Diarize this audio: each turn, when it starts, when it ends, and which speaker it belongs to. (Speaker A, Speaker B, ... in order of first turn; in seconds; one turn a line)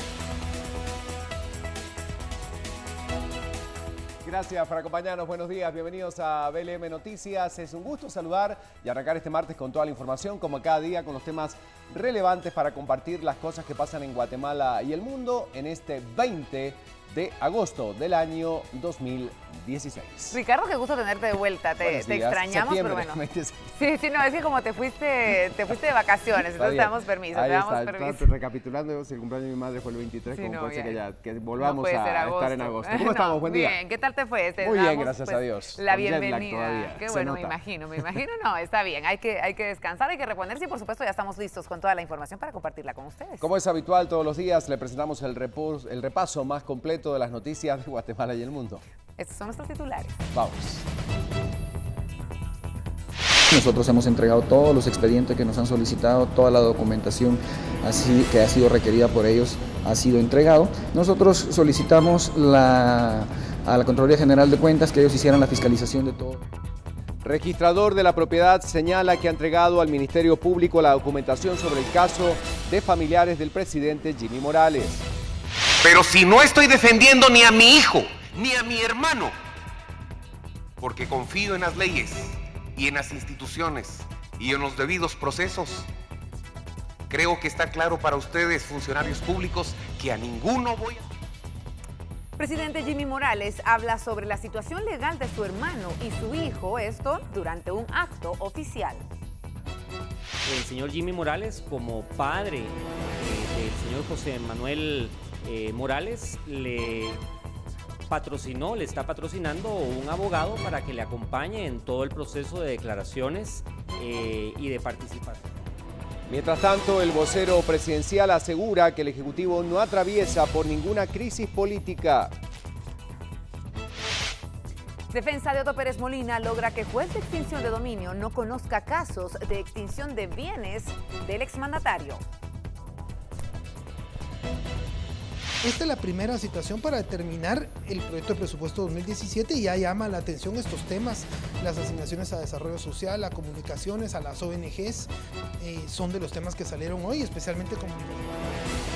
Speaker A: 4.2-20.3
Speaker B: 20.3-23.2
Speaker A: 21.8-23.7
Speaker B: 23.8-28.3
Speaker A: 26.5-33.8
Speaker B: 30.3-31.0
Speaker B: 31.6-43.5
Speaker A: 34.6-37.5
Speaker A: 43.4-48.8
Speaker B: 49.2-50.2
Speaker A: 50.3-50.8
Speaker C: 53.5-66.4
Speaker A: 67.2-75.1
Speaker D: 75.8-79.3
Speaker D: 80.8-85.9
Speaker D: 87.1-91.0
Speaker B: 92.4-99.0
Speaker E: 100.4-107.2
Speaker E: 108.1-115.4
Speaker A: 116.2-122.4
Speaker B: 125.1-132.2
Speaker F: 135.6-148.4